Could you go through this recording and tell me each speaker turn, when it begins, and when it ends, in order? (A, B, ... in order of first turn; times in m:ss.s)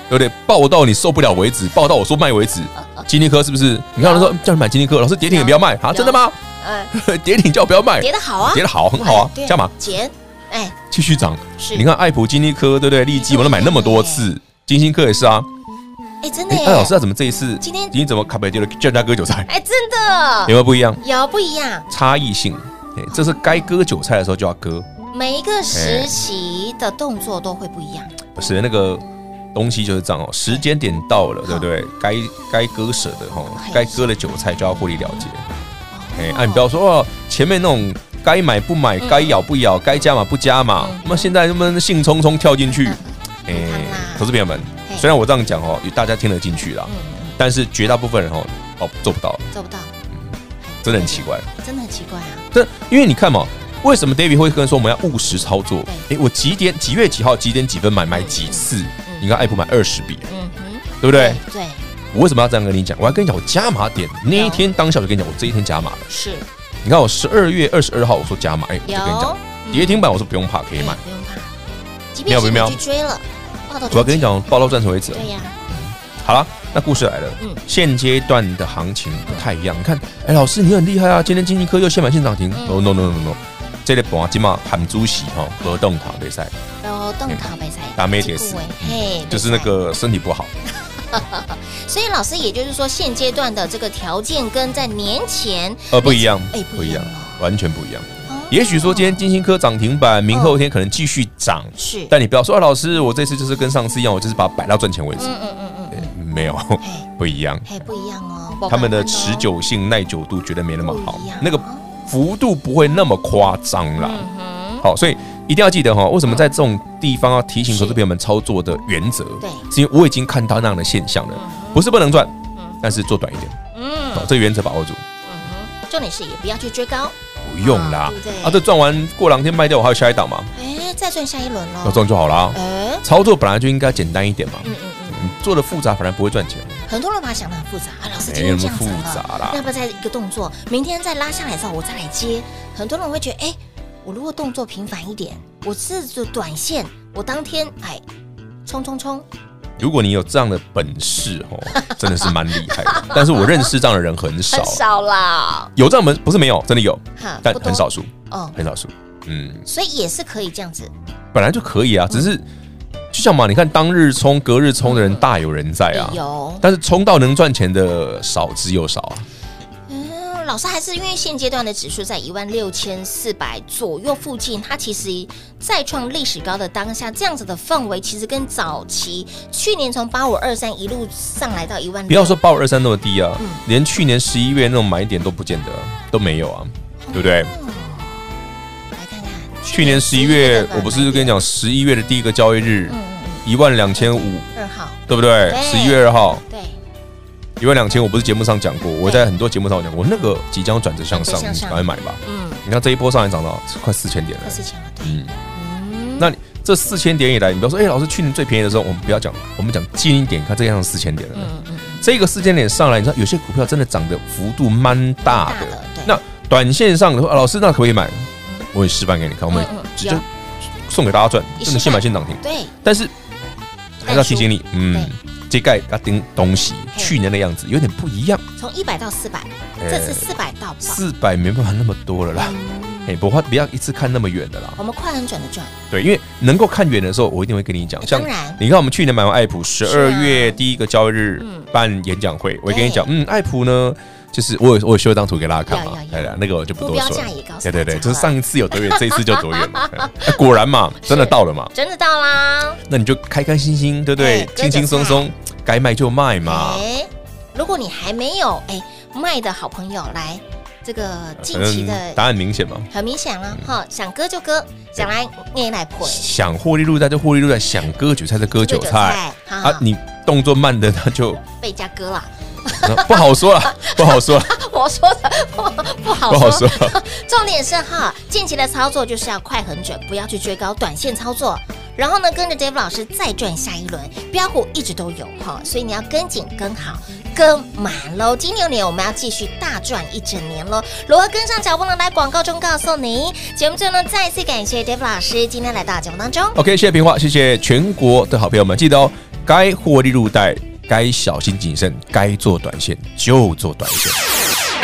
0:00.1-0:06.4 A
0:02.8-0:03.1 B
0:04.0-0:04.4 B
0:05.3-0:06.9 B
0:06.9-0:09.7 A
0:08.0-0:10.8 B
0:10.9-0:15.5 A
0:11.6-0:11.9 B
0:13.2-0:14.3 B
0:16.2-0:17.0 B
0:16.5-0:19.5 A
0:17.6-0:18.0 B
0:19.5-0:21.9 B
0:20.5-0:21.0 A
0:21.9-0:24.9 A
0:23.1-0:23.7 B
0:25.1-0:28.1 B
0:25.7-0:26.1 A
0:28.4-0:29.0 A
0:29.5-0:35.4 A
0:33.5-0:34.1 B
0:35.9-0:36.7 B
0:36.2-0:49.5 A
0:39.0-0:39.4 B
0:40.8-0:41.3 B
0:42.8-0:44.3 B
0:46.9-0:47.4 B
0:49.5-0:49.9 B
0:50.6-0:52.5 B
0:50.8-0:51.5 A
0:52.5-1:00.3 A
0:58.1-0:59.4 B
1:00.3-1:01.8 B
1:01.0-1:01.4 A
1:02.1-1:06.1 A
1:04.3-1:04.6 B
1:06.1-1:06.5 B
1:06.8-1:11.0 A
1:08.8-1:10.0 B
1:10.8-1:11.5 B
1:12.1-1:14.3 B
1:12.3-1:12.8 A
1:13.9-1:26.5 A
1:15.1-1:15.6 B
1:22.5-1:23.2 B
1:25.6-1:25.9 B
1:26.8-1:29.7 B
1:27.3-1:30.5 A
1:30.8-1:37.4 B
1:35.9-1:45.3 A
1:38.3-1:39.2 B
1:40.3-1:40.6 B
1:41.8-1:42.1 B
1:45.2-1:46.1 B
1:45.9-1:47.7 A
1:46.8-1:47.1 B
1:47.7-1:49.5 B
1:48.7-1:54.3 A
1:50.8-1:51.9 B
1:54.0-1:54.9 B
1:54.8-2:03.6 A
1:57.7-1:58.0 B
1:59.4-1:59.7 B
2:01.3-2:01.9 B
2:02.6-2:02.8 B
2:03.7-2:04.4 B
2:04.1-2:05.0 A
2:05.2-2:08.6 B
2:07.4-2:10.5 A
2:10.6-2:13.0 B
2:11.8-2:16.8 A
2:14.6-2:15.4 B
2:16.9-2:28.0 B
2:18.2-2:19.6 A
2:28.6-2:29.2 B
2:29.8-2:34.8 A
2:31.7-2:33.7 B
2:34.5-2:35.7 B
2:35.8-2:39.6 A
2:37.2-2:38.6 B
2:39.7-2:40.9 B
2:41.3-2:42.4 A
2:43.1-2:49.2 A
2:44.8-2:45.2 B
2:45.9-2:46.6 B
2:49.9-3:02.4 B
3:02.1-3:07.5 A
3:03.4-3:03.6 B
3:07.0-3:08.3 B
3:09.0-3:11.4 B
3:09.7-3:14.5 A
3:12.9-3:16.8 B
3:15.1-3:16.4 A
3:17.6-3:25.3 A
3:19.0-3:19.3 B
3:21.1-3:22.6 B
3:24.4-3:26.3 B
3:26.2-3:40.2 A
3:31.3-3:32.0 B
3:35.3-3:36.2 B
3:39.5-3:40.2 B
3:40.8-3:43.1 A
3:41.6-3:42.7 B
3:44.0-3:48.4 A
3:44.0-3:45.1 B
3:48.6-3:51.0 B
3:49.8-3:52.6 A
3:52.3-3:53.2 B
3:53.1-3:54.8 A
3:54.8-3:55.7 B
3:55.9-4:11.7 A
3:58.0-3:58.6 B
3:59.8-4:00.6 B
4:01.4-4:01.7 B
4:02.7-4:03.1 B
4:05.7-4:10.4 B
4:11.1-4:12.8 B
4:12.9-4:16.8 A
4:14.2-4:15.3 B
4:16.4-4:22.2 B
4:21.4-4:22.9 A
4:22.9-4:26.3 B
4:26.0-4:31.4 A
4:28.5-4:29.8 B
4:31.5-4:56.6 B
4:32.8-4:34.5 A
4:36.2-4:37.0 A
4:56.6-5:04.2 A